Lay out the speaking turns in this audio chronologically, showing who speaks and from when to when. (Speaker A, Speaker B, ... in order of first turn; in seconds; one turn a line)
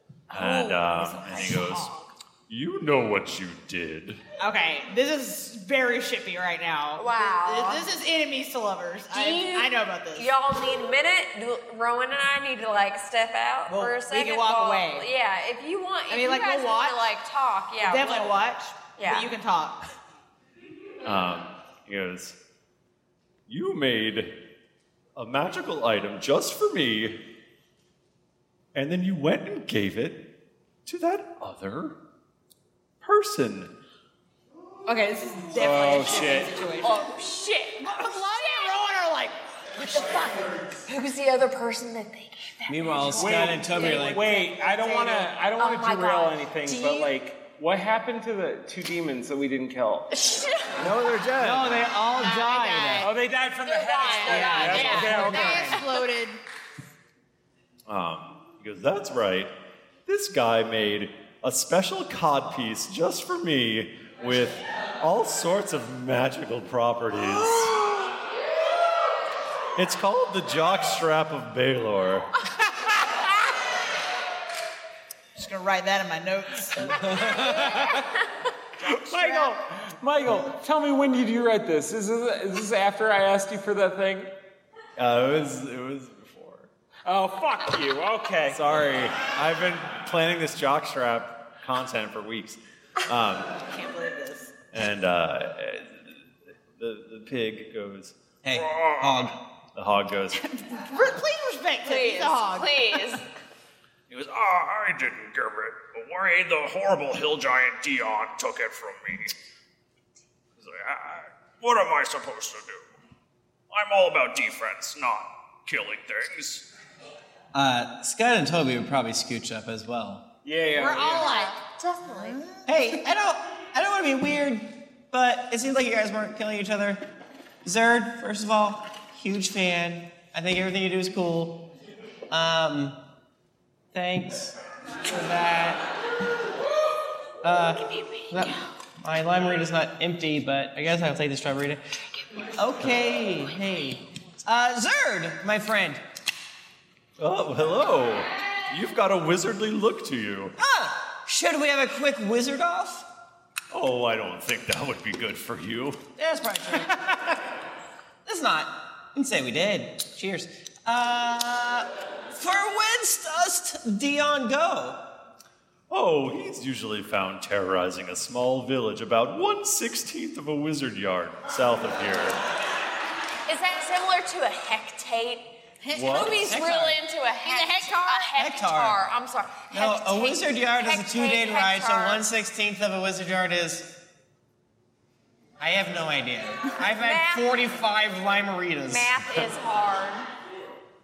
Speaker A: 0.3-1.9
Speaker B: 0.3-2.1
Speaker A: 2.5-4.2
Speaker B: 4.4-10.3
Speaker C: 7.0-7.8
Speaker C: 9.1-18.3
Speaker B: 13.7-15.1
Speaker B: 16.1-17.1
Speaker B: 17.8-19.8
Speaker C: 19.0-19.3
Speaker A: 21.0-22.4
Speaker A: 23.5-24.3
Speaker A: 25.1-27.2
Speaker A: 28.7-30.2
Speaker A: 30.9-31.9
Speaker A: 33.0-33.7
Speaker B: 34.9-37.1
Speaker D: 35.5-36.5
Speaker C: 36.8-38.8
Speaker B: 37.8-40.5
Speaker C: 40.9-47.1
Speaker E: 42.7-44.3
Speaker D: 43.1-50.1
Speaker C: 50.1-50.6
Speaker A: 50.8-51.9
Speaker E: 51.4-53.1
Speaker B: 52.1-53.1
Speaker D: 53.0-55.8
Speaker C: 53.6-56.0
Speaker B: 53.9-56.4
Speaker A: 57.9-59.5
Speaker A: 60.0-67.9
Speaker A: 69.8-72.3
Speaker B: 75.3-77.8
Speaker E: 76.8-78.0
Speaker C: 77.5-78.0
Speaker D: 78.8-84.3
Speaker B: 78.8-79.6
Speaker A: 85.0-86.7
Speaker D: 87.1-88.6
Speaker A: 88.5-93.5
Speaker B: 93.6-94.5
Speaker A: 94.7-96.1
Speaker A: 96.8-98.1
Speaker E: 98.4-99.3
Speaker F: 98.5-99.2
Speaker A: 99.7-100.4
Speaker B: 100.4-103.2
Speaker C: 101.8-103.2
Speaker F: 104.1-109.3
Speaker F: 110.6-112.9
Speaker F: 113.7-116.7
Speaker E: 117.5-120.2
Speaker D: 120.4-121.3
Speaker B: 120.7-122.6
Speaker C: 121.1-122.4
Speaker E: 122.7-127.0
Speaker E: 127.6-131.6
Speaker E: 132.3-133.0
Speaker E: 133.9-135.8
Speaker E: 137.4-141.8
Speaker C: 137.9-138.3
Speaker E: 142.5-146.0
Speaker A: 147.2-150.6
Speaker E: 150.6-153.1
Speaker A: 153.7-156.0
Speaker E: 156.2-157.0
Speaker E: 158.2-165.0
Speaker A: 165.9-172.4
Speaker C: 173.5-182.2
Speaker B: 175.8-176.4
Speaker A: 175.9-176.5
Speaker E: 176.4-177.0
Speaker B: 177.4-178.3
Speaker E: 178.3-179.0
Speaker E: 179.7-183.9
Speaker E: 185.6-189.2
Speaker C: 186.8-187.7
Speaker C: 188.9-190.3